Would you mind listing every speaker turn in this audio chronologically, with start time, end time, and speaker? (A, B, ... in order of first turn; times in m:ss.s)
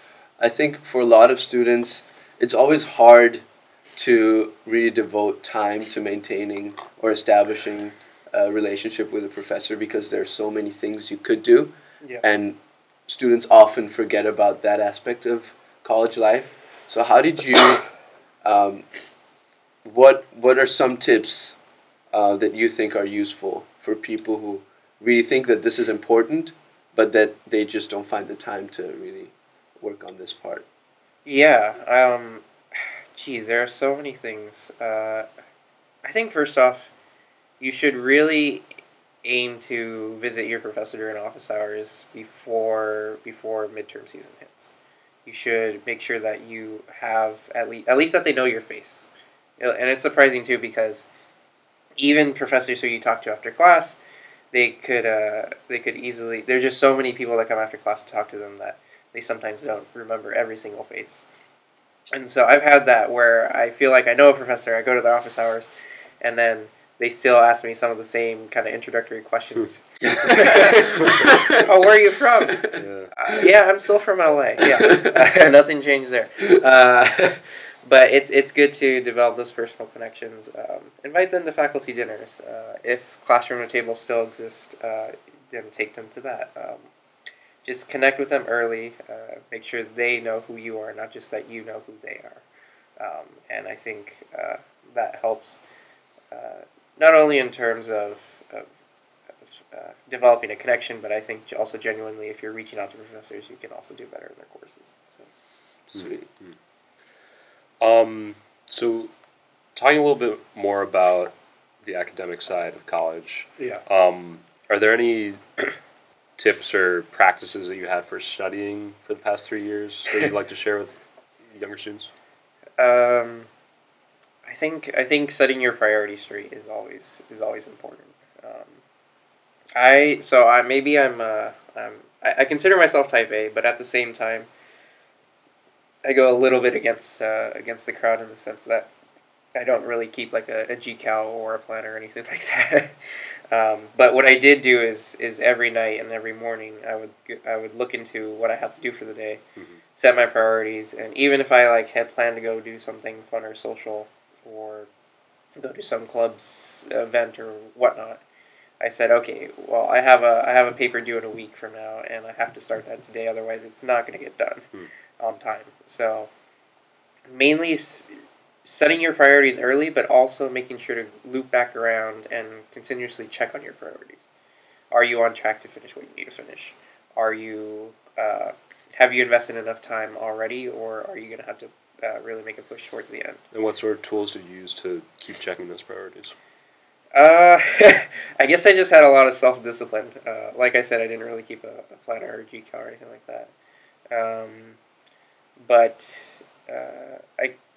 0:00.4-0:17.9 A
0:18.4-0:18.9 A
0:19.8-0:21.6 A
0:22.1-0:30.7 A
0:31.2-0:35.3 B
0:36.0-0:36.9 B
0:37.6-0:38.7 B
0:39.2-0:44.7 B
0:45.3-0:49.0 B
0:49.6-0:51.1 B
0:52.0-0:54.0 B
0:54.5-1:01.2 B
1:02.1-1:05.7 B
1:06.2-1:26.9 B
1:10.0-1:11.6 A
1:11.0-1:11.3 C
1:12.5-1:12.8 A
1:12.7-1:13.1 C
1:14.8-1:15.2 A
1:27.6-1:32.4 B
1:33.0-1:35.6 B
1:36.3-1:38.7 B
1:39.4-1:45.3 B
1:45.9-1:46.6 C
1:45.9-1:46.2 A
1:47.8-1:49.1 C
1:49.8-1:55.7 C
1:56.4-2:00.9 C
2:01.5-2:02.1 C
2:02.8-2:03.5 B
2:04.4-2:08.8 B
2:09.8-2:14.5 B
2:16.0-2:18.9 B
2:19.6-2:23.0 B
2:23.5-2:29.4 B
2:29.6-2:29.8 C
2:30.0-2:34.9 B
2:35.6-2:38.2 B
2:38.8-2:44.7 B
2:45.2-2:46.3 B
2:47.3-2:48.1 B
2:48.6-2:54.3 B
2:54.9-3:03.4 B
3:03.5-3:06.3 C
3:07.2-3:13.5 B
3:14.1-3:14.8 B
3:15.6-3:17.6 B